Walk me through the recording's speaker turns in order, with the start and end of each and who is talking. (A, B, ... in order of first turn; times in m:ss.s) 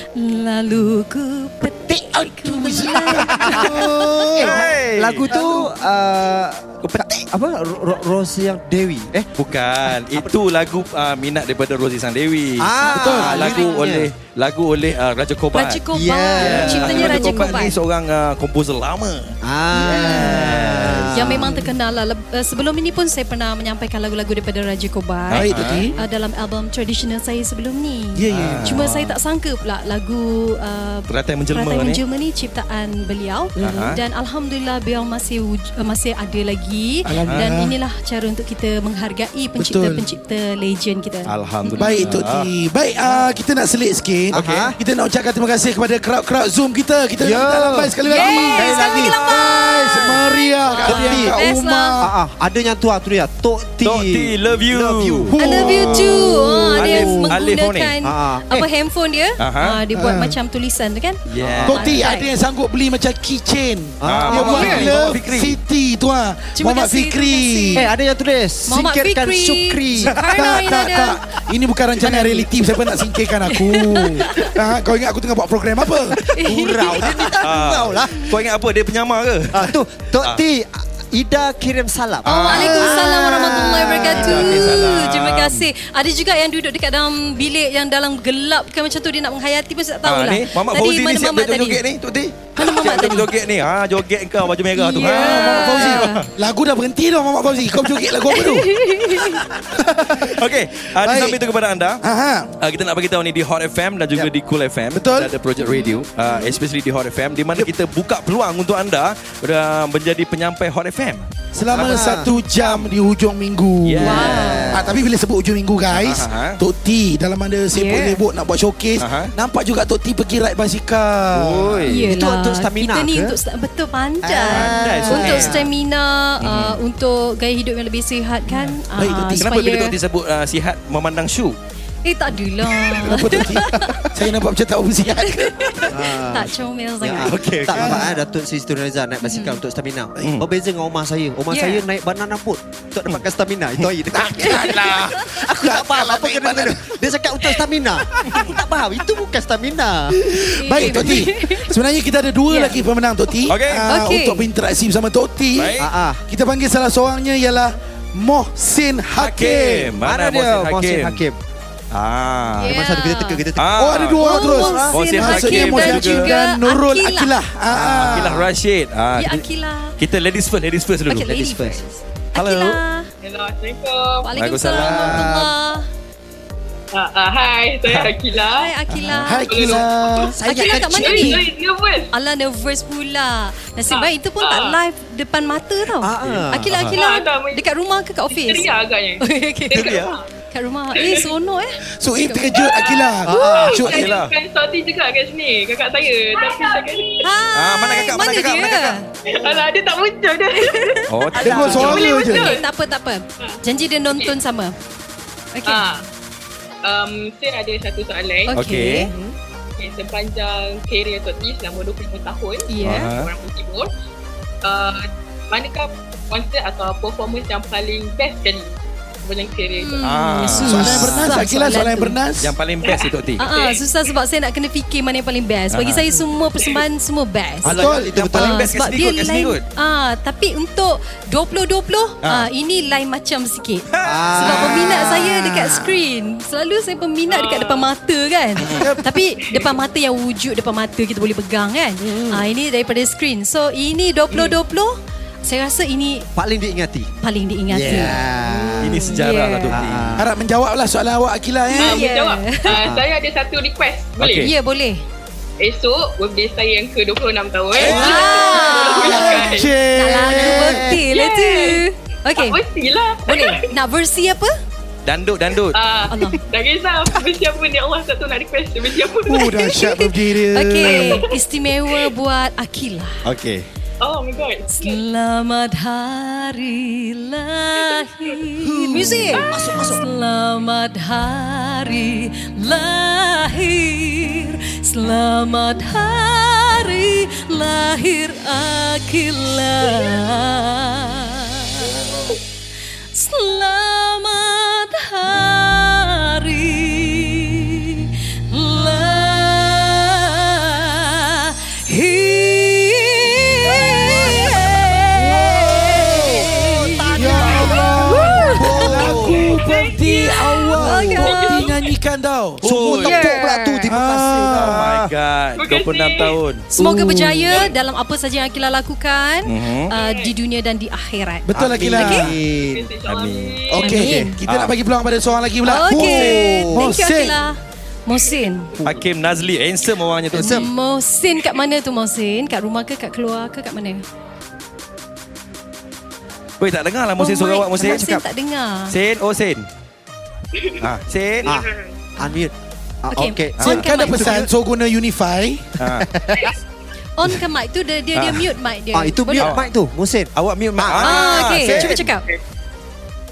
0:00.1-0:03.8 A
0:01.9-0:04.7 B
0:03.0-0:09.3 C
0:04.4-0:05.7 D
0:09.4-0:15.8 D
0:09.8-0:10.4 C
0:12.6-0:14.1 C
0:12.9-0:13.6 B
0:13.2-0:13.8 A
0:15.5-0:17.8 A
0:15.9-0:17.6 C
0:16.4-0:19.4 D
0:19.4-0:21.7 C
0:19.9-0:21.1 D
0:19.9-0:20.5 A
0:21.1-0:42.1 A
0:25.3-0:25.8 D
0:25.3-0:25.9 B
0:28.2-0:28.8 B
0:28.3-0:29.1 D
0:31.1-0:32.0 D
0:33.6-0:33.9 B
0:33.6-0:34.0 D
0:37.1-0:37.7 B
0:39.6-0:40.1 B
0:41.3-0:42.5 D
0:41.8-0:52.1 B
0:44.3-0:44.8 C
0:47.2-0:49.2 C
0:48.0-0:51.9 A
0:50.8-0:51.4 C
0:52.0-0:55.4 C
0:53.8-0:56.0 D
0:55.3-0:57.3 B
0:55.4-1:01.2 A
0:56.9-0:57.9 D
0:58.0-0:58.7 C
0:59.4-0:59.8 D
0:59.9-1:00.4 B
1:01.3-1:01.8 D
1:01.4-1:01.9 C
1:01.6-1:07.9 B
1:01.7-1:02.3 A
1:04.0-1:04.9 C
1:04.1-1:05.6 D
1:06.6-1:07.9 A
1:07.7-1:10.6 C
1:08.7-1:11.2 A
1:10.0-1:17.2 B
1:12.0-1:12.5 C
1:13.5-1:14.5 A
1:16.4-1:17.0 A
1:16.4-1:18.3 C
1:17.4-1:20.4 D
1:19.5-1:24.6 C
1:22.2-1:31.8 A
1:22.2-1:23.0 D
1:24.1-1:25.7 D
1:30.0-1:36.3 D
1:32.6-1:33.3 A
1:34.7-1:36.2 A
1:34.9-1:40.4 B
1:38.3-1:39.4 A
1:40.4-1:42.0 D
1:41.0-1:41.4 B
1:42.0-1:42.5 B
1:42.6-1:52.3 D
1:44.9-1:45.3 B
1:45.6-1:46.5 A
1:51.5-2:02.0 B
1:51.8-1:52.3 C
1:53.8-1:54.7 D
1:54.0-1:54.8 A
1:54.1-1:54.9 C
1:55.9-1:56.6 D
1:57.7-1:58.2 A
1:59.0-1:59.3 D
2:01.4-2:01.7 D
2:01.6-2:03.3 C
2:01.9-2:09.9 A
2:04.2-2:05.7 C
2:04.5-2:05.6 D
2:06.4-2:06.8 D
2:08.9-2:09.5 B
2:09.4-2:11.6 D
2:12.0-2:14.0 A
2:12.9-2:15.9 B
2:15.3-2:17.3 A
2:15.9-2:30.2 C
2:17.2-2:18.1 D
2:17.7-2:18.1 B
2:19.2-2:19.6 A
2:20.2-2:20.4 D
2:21.5-2:21.8 A
2:24.1-2:27.1 B
2:24.4-2:24.9 A
2:28.1-2:28.4 B
2:30.2-2:39.9 B
2:30.5-2:31.7 A
2:32.5-2:32.8 A
2:33.5-2:33.9 D
2:33.9-2:34.5 A
2:35.6-2:35.9 D
2:35.8-2:36.2 C
2:39.2-2:41.2 D
2:40.0-2:41.4 C
2:41.9-2:42.8 D
2:42.6-2:43.4 A
2:42.7-2:45.0 C
2:43.6-2:44.4 D
2:43.8-2:48.5 B
2:44.1-2:47.4 A
2:44.9-2:46.3 D
2:47.7-2:49.5 D
2:47.8-2:48.4 C
2:49.2-2:49.9 A
2:50.0-2:51.3 D
2:51.1-2:53.1 A
2:51.2-2:51.8 C
2:52.4-2:52.8 D
2:53.2-2:54.3 E
2:54.2-2:55.9 A
2:54.4-2:55.3 D
2:54.8-2:55.5 C
2:56.9-2:58.7 E
2:57.9-2:58.1 D
2:58.4-2:59.8 A
2:59.2-3:00.4 B
2:59.5-3:02.1 E
3:00.4-3:01.4 C
3:00.4-3:01.4 A
3:02.1-3:08.7 A
3:03.9-3:04.8 E
3:06.0-3:07.0 C
3:07.0-3:07.6 E
3:08.3-3:09.2 E
3:09.2-3:09.9 A
3:09.7-3:10.2 D
3:09.8-3:10.2 E
3:10.5-3:12.7 A
3:10.9-3:11.3 E
3:12.0-3:14.1 B
3:12.6-3:17.2 E
3:13.2-3:13.8 C
3:13.3-3:13.7 A
3:13.8-3:14.3 D
3:17.2-3:19.1 A
3:17.6-3:19.0 D
3:19.3-3:22.7 E
3:20.6-3:24.7 A
3:21.1-3:22.0 D
3:21.4-3:22.5 B
3:25.6-3:25.8 A
3:25.7-3:26.0 E
3:26.8-3:28.5 E
3:28.4-3:29.1 A
3:28.5-3:29.1 D
3:29.8-3:33.9 E
3:32.7-3:33.1 A
3:32.8-3:33.3 D
3:34.6-3:40.0 E
3:39.8-3:42.2 A
3:40.0-3:41.3 D
3:40.6-3:42.6 B
3:42.4-3:43.4 D
3:42.8-3:43.9 E
3:43.4-3:47.8 A
3:45.7-3:46.1 D
3:47.6-3:48.1 B
3:47.6-3:49.6 D
3:47.7-3:48.7 C
3:48.3-3:53.9 A
3:52.2-3:52.5 D
3:53.9-3:54.6 D
3:54.0-3:54.9 C
3:54.4-3:55.9 B
3:54.4-4:06.3 A
3:57.3-3:57.9 E
3:58.6-3:58.9 D
4:02.0-4:02.4 C
4:06.4-4:07.1 C
4:07.2-4:08.2 A
4:07.7-4:09.1 C
4:08.8-4:10.2 D
4:09.0-4:09.7 A
4:09.7-4:10.3 C
4:10.2-4:12.0 B
4:11.7-4:12.7 A
4:11.8-4:14.5 E
4:14.2-4:14.5 D
4:14.4-4:15.0 A
4:15.6-4:19.7 E
4:17.7-4:18.5 D
4:17.8-4:22.6 A
4:19.0-4:20.9 B
4:20.3-4:21.0 C
4:21.1-4:23.6 E
4:23.2-4:24.5 A
4:25.0-4:25.8 D
4:25.7-4:29.8 E
4:26.1-4:26.4 A
4:29.2-4:31.2 B
4:29.8-4:33.2 A
4:30.8-4:32.1 E
4:33.2-4:33.6 D
4:34.0-4:35.0 E
4:34.7-4:52.3 A
4:37.8-4:38.5 E
4:38.6-4:40.0 C
4:39.3-4:39.7 E
4:53.1-5:09.1 A
5:05.3-5:09.2 C
5:05.4-5:06.3 B
5:07.1-5:13.3 B
5:08.9-5:09.4 D
5:09.1-5:11.9 E
5:10.6-5:11.7 A
5:12.6-5:13.3 D
5:12.6-5:15.1 C
5:13.1-5:13.8 A
5:13.9-5:14.8 B
5:14.6-5:16.6 D
5:15.6-5:16.4 E
5:16.7-5:22.2 A
5:16.8-5:17.5 B
5:19.4-5:19.9 D
5:19.9-5:20.4 E
5:21.5-5:22.4 B
5:21.6-5:21.9 D
5:21.7-5:22.9 C
5:22.6-5:24.0 E
5:23.1-5:23.6 D
5:23.7-5:27.4 B
5:23.8-5:24.4 A
5:23.9-5:24.3 C
5:24.4-5:24.7 D
5:25.6-5:28.7 A
5:25.9-5:26.9 C
5:28.8-5:29.0 C
5:28.8-5:30.6 D
5:30.3-5:30.7 C
5:30.4-5:34.0 A
5:36.6-5:38.1 D
5:37.2-5:38.9 A
5:37.8-5:38.2 C
5:38.9-5:39.6 D
5:40.6-5:40.8 E
5:40.8-5:41.6 D
5:41.5-5:41.9 E
5:42.2-5:44.3 C
5:43.1-5:44.5 A
5:43.6-5:46.5 B
5:45.8-5:46.1 D
5:47.2-5:49.5 A
5:48.1-5:48.5 D
5:48.9-5:52.0 C
5:49.4-5:49.7 D
5:50.4-5:52.1 D
5:51.0-5:52.2 A